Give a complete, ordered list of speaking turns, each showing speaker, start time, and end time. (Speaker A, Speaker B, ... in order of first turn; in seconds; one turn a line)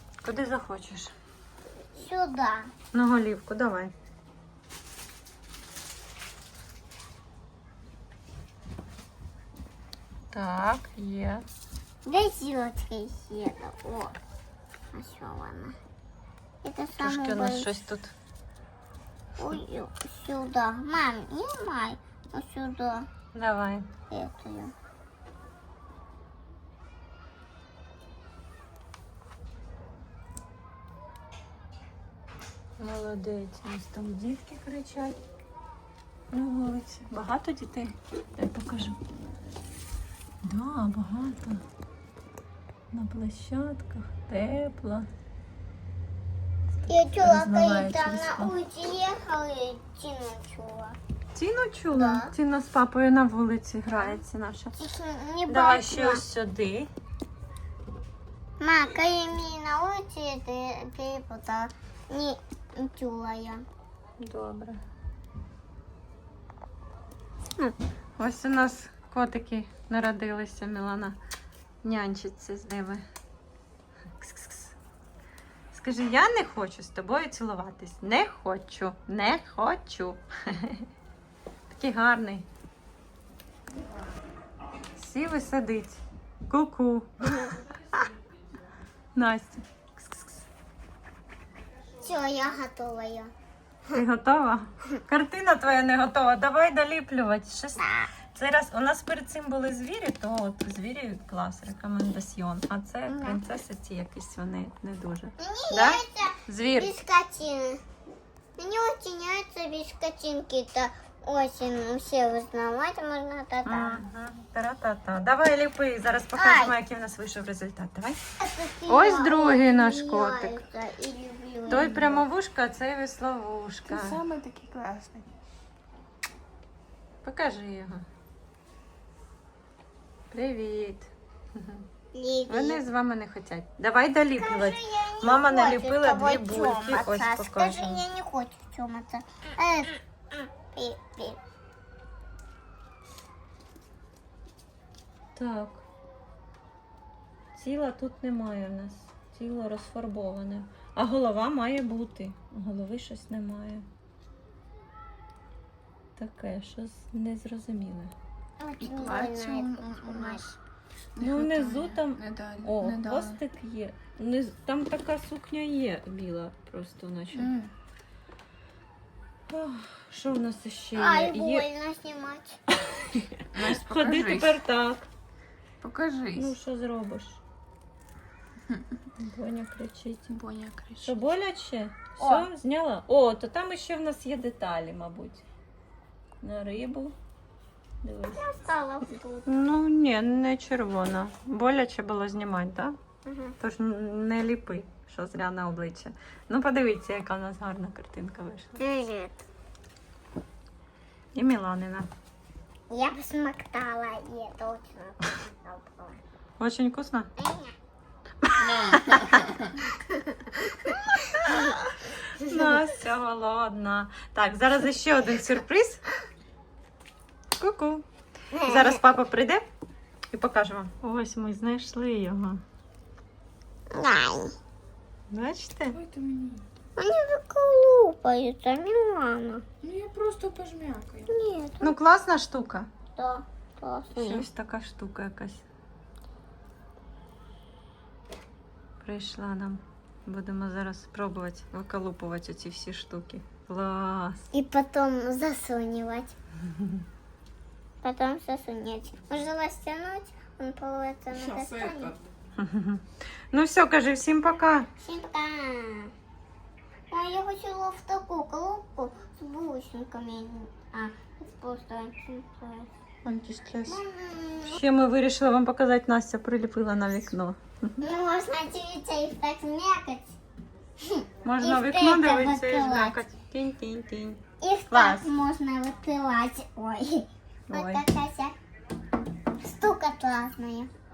Speaker A: 0.2-1.1
Speaker B: 1.9-2.7
Speaker A: 2.9-3.9
Speaker A: 10.3-11.4
Speaker B: 12.0-14.2
Speaker B: 14.9-15.7
Speaker B: 16.6-17.7
Speaker A: 17.0-18.1
Speaker B: 19.4-23.1
Speaker A: 23.3-23.9
Speaker B: 24.1-24.7
Speaker A: 32.8-35.2
Speaker A: 36.3-39.0
Speaker A: 40.4-41.6
Speaker A: 42.9-45.1
Speaker B: 46.9-51.0
Speaker A: 47.2-48.5
Speaker A: 51.3-54.8
Speaker B: 51.9-52.3
Speaker B: 54.8-56.2
Speaker A: 55.5-56.9
Speaker B: 58.6-63.6
Speaker A: 64.2-64.8
Speaker A: 68.2-71.2
Speaker A: 71.8-73.0
Speaker A: 74.2-74.7
Speaker A: 75.7-80.8
Speaker A: 81.7-82.5
Speaker A: 85.0-87.4
Speaker A: 89.1-90.4
Speaker B: 92.0-93.3
Speaker A: 93.9-107.0
Speaker B: 97.8-98.1
Speaker B: 103.1-103.4
Speaker B: 105.4-107.8
Speaker B: 108.6-114.0
Speaker A: 113.6-118.2
Speaker B: 116.4-116.7
Speaker B: 118.4-122.2
Speaker A: 118.9-120.6
Speaker A: 121.7-124.2
Speaker C: 121.7-122.0
Speaker C: 123.8-125.3
Speaker A: 127.2-128.0
Speaker A: 130.3-131.9
Speaker B: 132.1-132.8
Speaker A: 132.5-138.0
Speaker B: 134.3-141.4
Speaker A: 145.3-145.8
Speaker A: 147.5-153.8
Speaker A: 156.2-158.1
Speaker B: 158.6-160.4
Speaker C: 158.8-160.6
Speaker C: 161.1-163.4
Speaker A: 161.2-167.5
Speaker C: 167.3-167.7
Speaker A: 169.5-171.7
Speaker B: 170.9-172.6
Speaker A: 172.9-175.1
Speaker C: 173.5-174.5
Speaker C: 175.8-176.5
Speaker A: 176.3-177.4
Speaker A: 179.2-180.3
Speaker C: 180.3-181.1
Speaker A: 181.0-185.4
Speaker A: 186.4-187.1
Speaker A: 188.0-188.4
Speaker B: 188.3-189.5
Speaker A: 189.4-192.9
Speaker B: 193.2-193.6
Speaker A: 193.6-198.8
Speaker B: 198.8-199.4
Speaker A: 201.3-202.1
Speaker B: 202.9-206.2
Speaker A: 206.6-207.3
Speaker B: 207.4-207.7
Speaker A: 208.4-209.5
Speaker C: 208.7-209.6
Speaker B: 209.8-211.8
Speaker A: 211.2-211.8
Speaker A: 212.3-216.0
Speaker B: 212.4-212.8
Speaker A: 217.6-218.0
Speaker B: 218.5-219.0
Speaker A: 218.6-219.6
Speaker A: 220.3-222.6
Speaker B: 223.9-224.5
Speaker A: 225.3-226.0
Speaker C: 225.9-226.6
Speaker B: 227.0-229.6
Speaker C: 229.8-231.3
Speaker B: 231.3-231.9
Speaker A: 231.8-232.9
Speaker B: 233.1-234.4
Speaker A: 234.1-235.6
Speaker A: 239.0-244.5
Speaker B: 244.5-246.3
Speaker B: 248.0-252.1
Speaker C: 251.3-252.2
Speaker A: 252.6-254.9
Speaker B: 255.0-256.1
Speaker B: 257.1-262.9
Speaker A: 263.2-264.0
Speaker B: 263.9-264.8
Speaker A: 264.7-267.6
Speaker B: 268.0-270.4
Speaker B: 271.0-273.2
Speaker A: 271.4-275.3
Speaker B: 274.6-278.5
Speaker A: 277.7-278.0
Speaker B: 279.6-280.9